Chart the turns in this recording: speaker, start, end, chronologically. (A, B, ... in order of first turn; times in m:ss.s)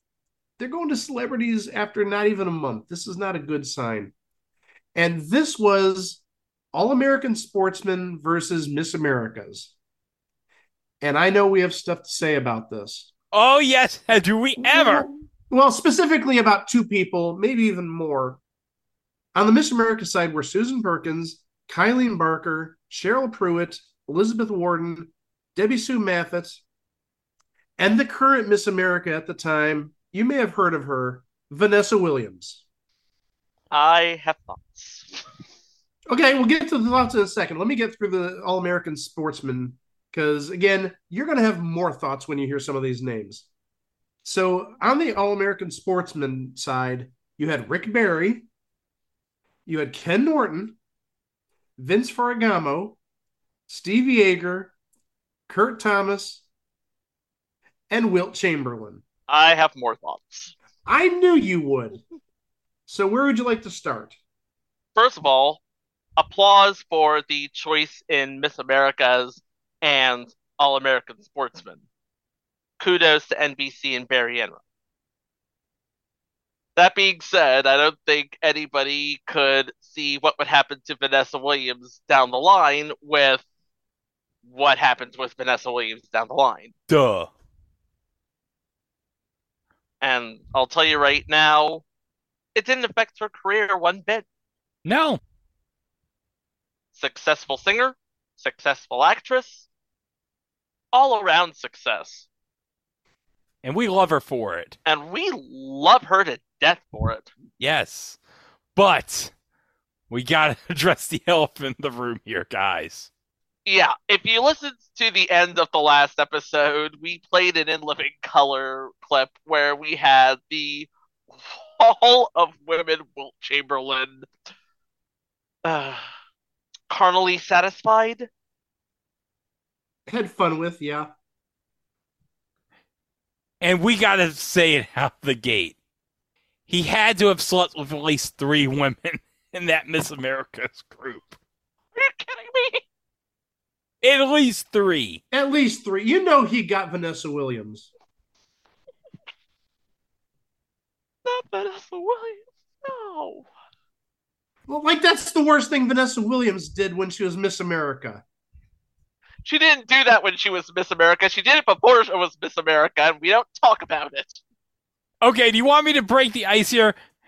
0:00.6-0:04.1 A
0:04.9-0:06.2 A
0:06.7-0:09.7 A
0:11.0-0:13.1 A
0:13.3-0:15.1 B
0:14.6-0:18.4 A
0:19.3-0:26.6 A
0:27.8-0:32.6 A
0:33.7-0:35.2 C
0:36.1-0:43.4 A
0:44.2-0:48.5 A
0:49.6-0:50.8 A
0:51.8-0:53.0 A
0:53.7-0:54.7 A
0:55.5-0:56.4 A
0:57.9-0:59.0 A
0:59.3-1:00.5 C
1:00.8-1:02.0 A
1:02.9-1:04.2 A
1:05.0-1:05.6 C
1:06.2-1:11.8 C
1:12.8-1:14.6 C
1:16.8-1:23.4 C
1:24.4-1:26.7 C
1:26.9-1:27.3 B
1:30.0-1:31.8 C
1:32.5-1:34.2 C
1:34.8-1:35.2 B
1:36.9-1:39.7 C
1:40.9-1:42.3 C
1:43.6-1:44.8 B
1:44.8-1:47.3 C
1:47.6-1:48.2 B
1:48.7-1:49.3 B
1:50.1-1:53.1 B
1:53.6-2:00.9 C
2:01.4-2:04.3 C
2:05.6-2:06.0 C
2:06.9-2:08.3 C
2:10.0-2:11.1 A
2:13.6-2:15.8 B
2:16.7-2:21.4 B
2:22.0-2:22.8 C
2:24.0-2:25.2 B
2:25.3-2:27.9 A
2:31.2-2:33.5 C
2:34.7-2:38.2 A
2:39.4-2:44.4 C
2:45.2-2:47.0 B